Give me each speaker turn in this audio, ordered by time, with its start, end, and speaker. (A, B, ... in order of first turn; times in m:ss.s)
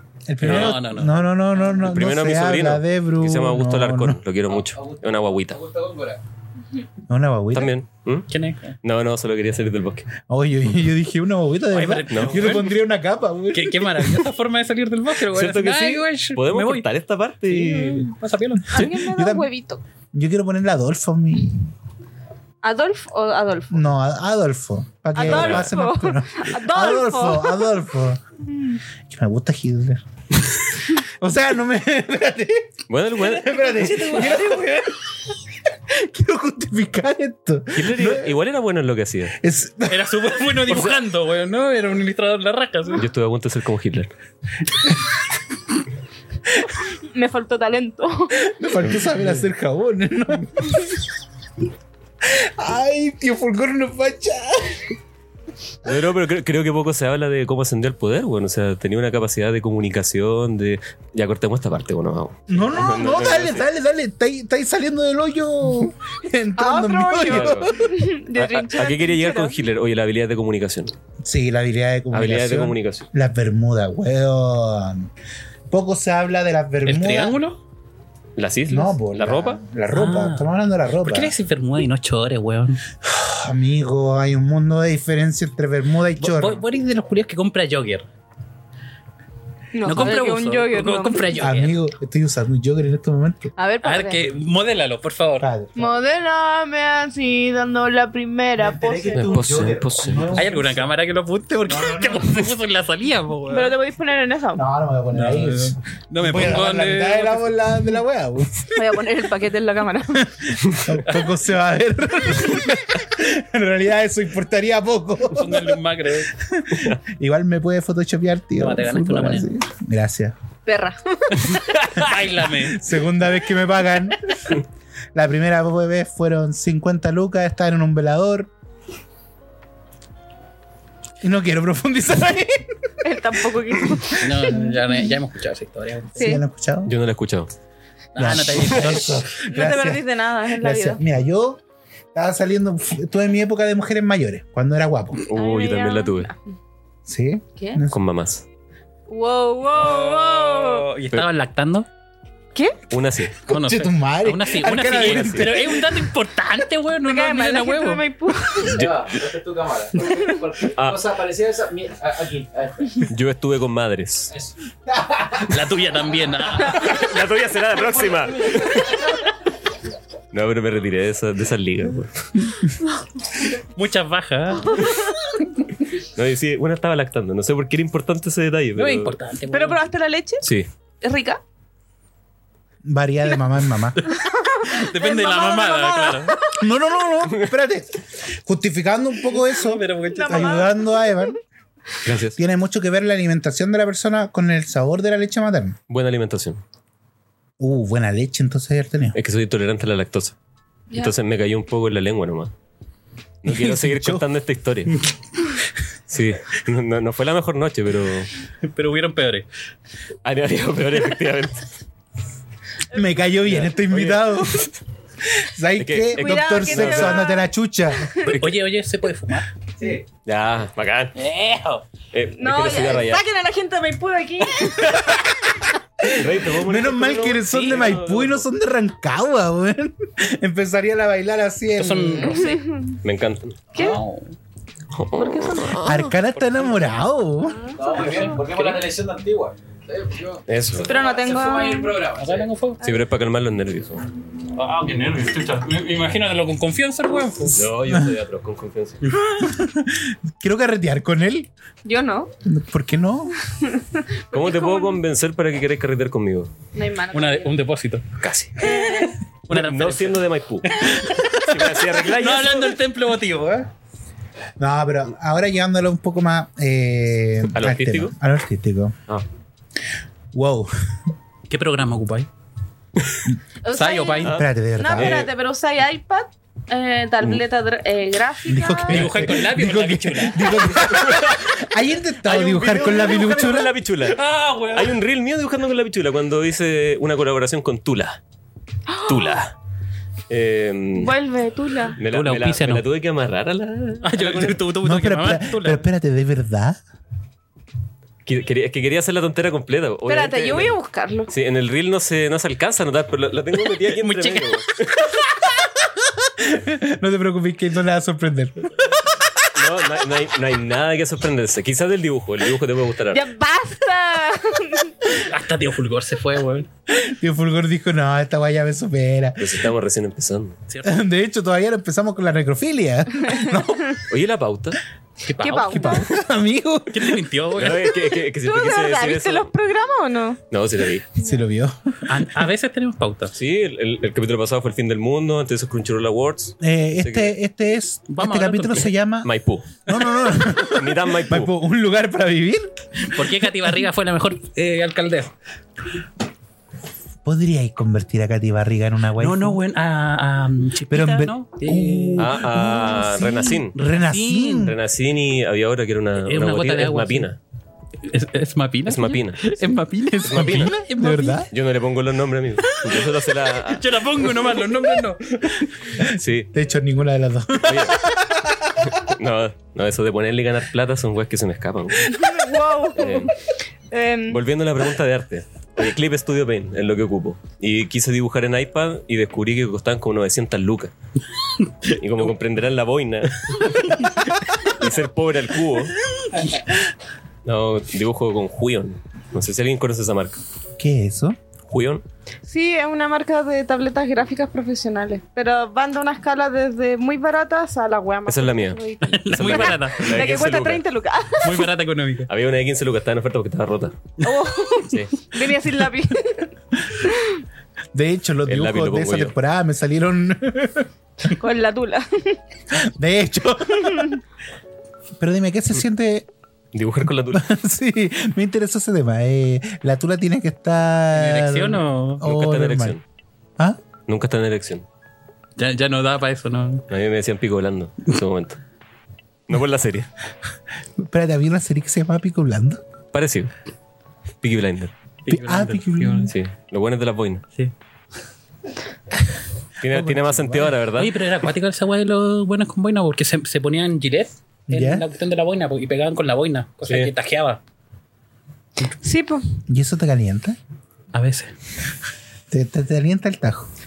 0:00.3-0:04.2 A
0:00.4-0:01.2 B
0:00.4-0:00.8 C
0:01.8-0:05.6 C
0:04.5-0:06.2 D
0:07.1-0:07.7 A
0:07.5-0:08.3 C
0:08.3-0:08.8 B
0:08.8-0:10.1 C
0:10.3-0:14.3 A
0:11.7-0:12.8 B
0:12.1-0:12.6 C
0:13.5-0:16.9 B
0:15.3-0:18.1 C
0:17.5-0:18.9 B
0:18.7-0:19.8 E
0:18.7-0:19.5 A
0:20.1-0:21.7 A
0:22.6-0:23.9 E
0:23.7-0:28.2 A
0:25.2-0:27.7 E
0:25.2-0:25.7 C
0:28.5-0:28.8 E
0:29.1-0:35.1 A
0:32.9-0:34.1 C
0:33.7-0:34.8 B
0:35.9-0:38.3 A
0:37.7-0:39.4 C
0:39.4-0:40.5 A
0:39.8-0:43.0 B
0:43.0-0:44.1 C
0:46.9-0:48.5 E
0:48.4-0:51.0 A
0:52.2-0:55.0 A
0:55.8-1:03.6 C
1:02.5-1:08.0 A
1:06.6-1:09.5 E
1:07.2-1:07.7 C
1:08.3-1:10.9 C
1:11.2-1:15.1 A
1:12.1-1:13.1 C
1:15.7-1:17.4 A
1:16.8-1:17.6 B
1:18.4-1:19.6 C
1:18.7-1:21.3 A
1:19.9-1:22.8 B
1:23.0-1:26.6 A
1:26.2-1:28.1 B
1:29.7-1:31.3 E
1:29.8-1:31.8 B
1:31.3-1:33.5 A
1:33.6-1:34.2 E
1:33.8-1:35.5 B
1:35.4-1:35.9 A
1:35.8-1:39.4 E
1:38.6-1:40.8 A
1:39.1-1:40.4 C
1:40.3-1:43.8 B
1:41.6-1:42.5 A
1:43.5-1:44.6 E
1:44.5-1:48.8 A
1:45.1-1:47.6 B
1:48.7-1:50.5 E
1:50.2-1:55.8 A
1:51.0-1:51.3 B
1:55.3-1:56.3 B
1:56.3-2:00.3 A
1:58.6-1:59.5 B
2:00.6-2:01.7 E
2:01.5-2:02.9 B
2:02.1-2:04.6 A
2:05.1-2:08.5 A
2:11.2-2:12.9 A
2:13.0-2:14.7 E
2:13.9-2:14.5 A
2:14.2-2:16.3 B
2:16.1-2:16.9 A
2:16.2-2:16.4 E
2:16.8-2:17.5 C
2:18.1-2:19.3 B
2:18.2-2:21.6 A
2:19.4-2:21.0 E
2:22.1-2:25.2 A
2:25.2-2:26.3 C
2:25.3-2:26.4 E
2:27.0-2:28.0 A
2:27.9-2:28.4 C
2:29.1-2:30.9 E
2:29.7-2:31.9 B
2:32.9-2:33.4 C
2:33.4-2:36.0 A
2:33.5-2:38.0 B
2:34.8-2:35.6 C
2:37.0-2:38.8 E
2:38.6-2:39.0 C
2:38.6-2:43.0 D
2:40.7-2:41.1 C
2:43.0-2:44.3 C
2:45.4-2:47.0 B
2:46.6-2:49.1 C
2:48.4-2:49.1 D
2:50.3-2:52.5 C
2:53.5-2:55.1 B
2:56.0-2:59.2 C
2:58.8-2:59.8 B
2:59.5-3:00.4 E
3:00.4-3:00.7 C
3:01.0-3:01.4 E
3:02.8-3:04.0 A
3:04.0-3:06.4 B
3:04.1-3:06.6 E
3:06.5-3:11.4 A
3:09.5-3:10.7 B
3:10.1-3:11.3 E
3:12.0-3:12.4 C
3:12.4-3:15.8 A
3:15.9-3:16.6 C
3:17.6-3:19.2 A
3:19.1-3:20.4 C
3:20.9-3:22.5 C
3:23.4-3:25.0 C
3:23.4-3:24.2 A
3:26.1-3:28.3 C
3:28.6-3:29.4 B
3:30.2-3:31.7 C
3:32.9-3:34.7 A
3:33.4-3:34.7 C
3:35.2-3:38.2 A
3:35.8-3:37.3 C
3:36.1-3:37.5 E
3:38.0-3:38.3 E
3:38.2-3:38.6 C
3:38.2-3:39.5 B
3:40.2-3:41.1 C
3:41.2-3:41.8 B
3:42.1-3:43.2 C
3:42.4-3:45.3 E
3:44.8-3:52.4 A
3:46.1-3:48.4 C
3:51.7-3:52.6 B
3:52.2-3:53.0 E
3:53.0-3:53.6 C
3:53.7-3:54.0 E
3:53.7-3:54.4 B
3:54.9-3:56.1 C
3:55.2-3:55.7 E
3:55.8-3:57.7 A
3:56.3-3:57.0 B
3:57.4-3:58.4 E
3:57.7-4:02.5 D
3:58.0-3:58.9 B
4:00.5-4:00.9 C
4:00.8-4:02.0 E
4:02.1-4:02.8 B
4:02.8-4:04.0 C
4:04.5-4:07.6 B
4:07.5-4:09.2 C
4:09.3-4:11.5 A
4:11.8-4:12.3 E
4:12.4-4:13.4 A
4:13.6-4:15.0 E
4:14.3-4:16.5 C
4:16.7-4:17.6 E
4:17.1-4:18.0 B
4:18.2-4:18.7 C
4:18.6-4:19.2 E
4:18.6-4:23.7 B
4:19.5-4:22.8 C
4:24.6-4:29.0 A
4:27.5-4:28.1 C
4:30.3-4:30.7 A
4:31.5-4:32.3 B
4:33.6-4:39.2 E
4:33.7-4:34.4 B
4:34.2-4:35.3 C
4:34.2-4:35.3 A
4:38.4-4:43.7 A
4:38.9-4:40.7 B
4:40.8-4:41.6 C
4:42.2-4:43.4 B
4:42.5-4:48.2 C
4:44.0-4:45.0 B
4:48.9-4:49.4 E
4:49.0-4:49.5 C
4:50.3-4:51.2 C
4:50.9-4:52.0 E
4:51.9-4:54.6 C
4:52.0-4:52.8 B
4:54.0-4:55.8 B
4:54.8-4:56.8 A
4:58.2-5:05.2 C
5:00.0-5:01.3 E
5:03.9-5:04.6 B
5:06.0-5:09.5 A
5:09.5-5:13.2 C
5:13.1-5:15.0 E
5:15.2-5:16.7 B
5:16.9-5:19.7 A
5:19.4-5:20.6 C
5:20.7-5:21.0 B
5:20.8-5:24.0 A
5:24.1-5:24.8 C
5:25.2-5:26.0 B
5:25.4-5:26.1 E
5:25.6-5:27.3 A
5:26.9-5:27.9 B
5:27.6-5:29.5 C
5:28.4-5:30.4 E
5:30.5-5:31.1 C
5:31.2-5:32.2 A
5:32.1-5:33.3 B
5:33.3-5:37.3 C
5:36.6-5:39.3 A
5:38.1-5:38.9 B
5:39.2-5:41.5 C
5:39.8-5:42.7 A
5:43.0-5:45.3 B
5:47.2-5:49.6 A
5:49.2-5:52.3 B
5:50.9-5:54.8 A
5:52.2-5:53.8 C
5:53.9-5:54.7 B
5:54.5-5:57.4 C
5:56.2-5:57.3 B
5:58.0-6:01.5 B
5:58.9-5:59.6 C
6:00.2-6:01.5 A
6:00.2-6:00.8 C
6:01.5-6:04.3 C
6:02.6-6:05.7 B
6:05.9-6:08.9 A
6:06.0-6:06.5 C
6:07.6-6:08.1 C
6:08.8-6:12.3 C
6:12.0-6:14.4 E
6:12.9-6:13.3 C
6:14.3-6:20.9 C
6:21.6-6:21.9 B
6:21.9-6:25.9 C
6:27.4-6:30.4 C
6:30.8-6:31.4 A
6:31.7-6:32.0 C
6:32.4-6:41.7 E
6:38.2-6:40.8 C
6:39.0-6:40.3 B
6:41.4-6:42.3 B
6:42.3-6:44.1 C
6:44.2-6:47.4 E
6:44.8-6:45.1 C
6:47.9-6:50.9 A
6:48.5-6:49.3 C
6:51.3-6:52.4 E
6:52.7-6:54.2 A
6:53.8-6:54.1 E
6:55.2-6:56.3 A
6:56.7-6:57.5 C
6:57.3-7:03.0 A
7:01.1-7:02.2 B
7:02.2-7:03.0 C
7:04.1-7:04.8 C
7:05.6-7:06.8 B
7:06.9-7:08.6 C
7:09.5-7:10.1 C
7:11.0-7:12.8 A
7:13.1-7:13.5 C
7:14.4-7:14.9 C
7:15.2-7:16.3 B
7:15.3-7:16.3 A
7:16.3-7:17.4 C
7:19.8-7:21.1 C
7:19.8-7:20.8 A
7:21.0-7:27.6 B
7:24.7-7:25.0 A
7:28.9-7:29.4 E
7:29.7-7:30.6 A
7:31.1-7:31.5 B
7:32.5-7:33.7 A